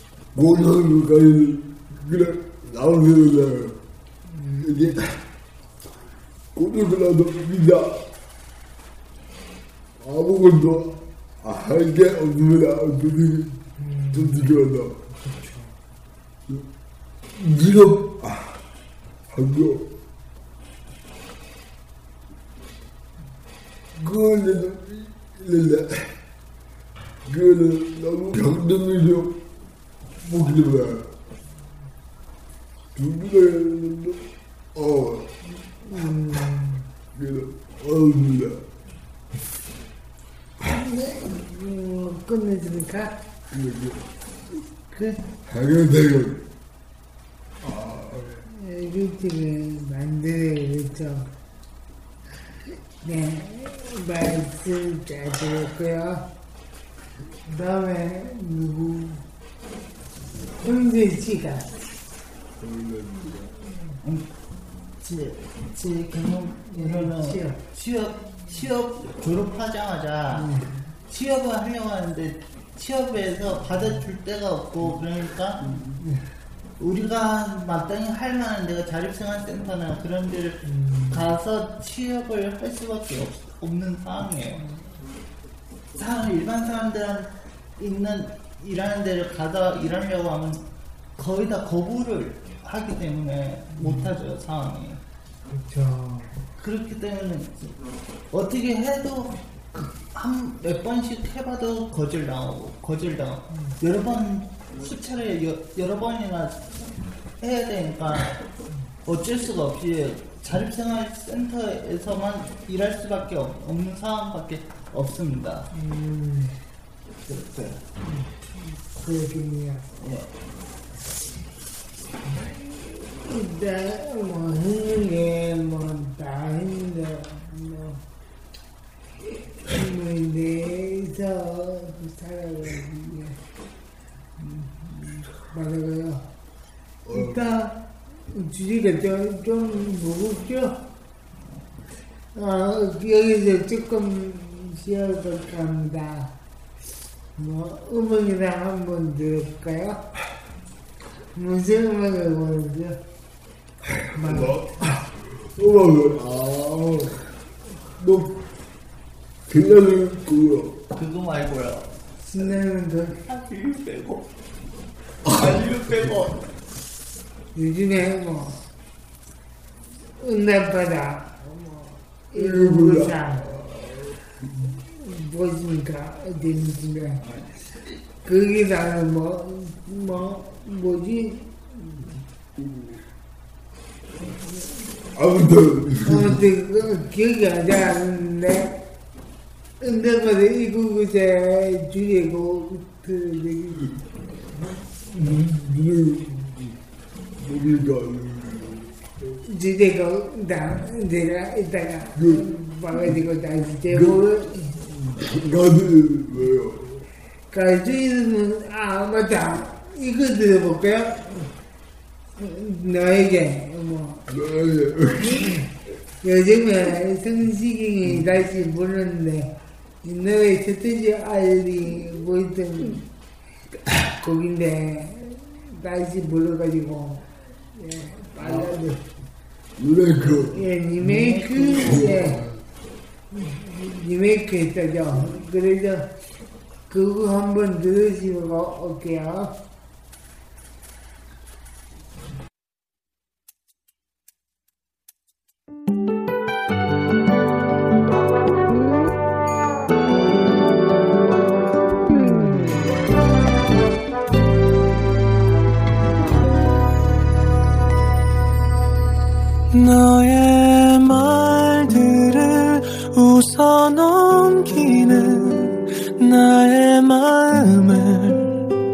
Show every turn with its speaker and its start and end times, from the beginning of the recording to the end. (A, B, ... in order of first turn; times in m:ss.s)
0:00.3-0:03.8 A
0:04.4-0:04.6 B
0:04.6-0:05.2 A
0:06.6-0:08.1 A
0:10.0-0:13.6 A
0:13.8-0:14.3 B
0:14.1-0:15.0 A
0:15.2-0:15.7 B
0:17.3-0:18.6 A
0:19.3-0:19.9 A
0:24.0-0:26.1 A
0:27.3-0:29.4 A
0:30.2-0:31.1 A
0:33.0-0:34.2 A
0:34.8-0:35.3 A
0:35.8-0:36.8 B
0:37.1-0:38.6 A
0:40.6-0:43.2 B
0:43.5-0:44.1 A
0:44.9-0:45.2 B
0:45.4-0:46.4 A
0:47.6-0:48.5 A
0:48.5-0:51.3 B
0:53.0-0:56.3 B
0:57.5-0:59.2 B
1:00.6-1:01.7 B
1:02.6-1:03.5 A
1:05.0-1:10.5 C
1:06.7-1:07.6 B
1:10.3-1:10.8 B
1:11.1-1:15.7 C
1:16.8-1:20.6 C
1:20.6-1:21.4 B
1:21.1-1:24.6 C
1:26.0-1:30.6 C
1:31.2-1:35.0 C
1:33.7-1:34.1 B
1:35.5-1:36.4 B
1:36.6-1:37.6 C
1:38.3-1:48.4 C
1:49.0-1:55.7 C
1:55.7-1:56.6 B
1:57.3-1:57.8 C
1:59.0-1:59.8 B
2:00.0-2:00.3 C
2:02.3-2:08.0 B
2:09.3-2:13.4 B
2:14.4-2:16.2 B
2:17.0-2:17.6 A
2:17.1-2:17.8 B
2:18.3-2:20.8 B
2:22.4-2:26.3 B
2:27.4-2:30.0 B
2:31.4-2:33.0 B
2:34.0-2:37.3 A
2:34.2-2:34.8 B
2:38.0-2:38.4 A
2:39.5-2:40.8 A
2:40.9-2:42.0 C
2:42.2-2:43.2 B
2:43.2-2:44.3 C
2:45.2-2:46.1 A
2:45.2-2:46.4 C
2:47.6-2:48.6 B
2:50.2-2:53.5 B
2:52.3-2:54.7 A
2:54.9-2:57.2 B
2:58.2-3:02.1 B
3:05.1-3:06.4 A
3:06.1-3:08.7 B
3:09.8-3:13.9 B
3:15.1-3:16.8 A
3:17.4-3:19.4 A
3:19.5-3:24.5 B
3:22.2-3:23.2 A
3:23.9-3:27.1 A
3:27.5-3:31.5 B
3:32.4-3:34.2 B
3:34.3-3:35.5 A
3:36.2-3:39.5 B
3:40.0-3:43.0 B
3:44.0-3:49.0 B
3:49.8-3:50.6 A
3:50.5-3:52.4 B
3:51.0-3:52.2 C
3:51.8-3:52.6 A
3:53.3-3:56.1 B
3:56.9-3:59.5 B
4:19.7-4:28.5 D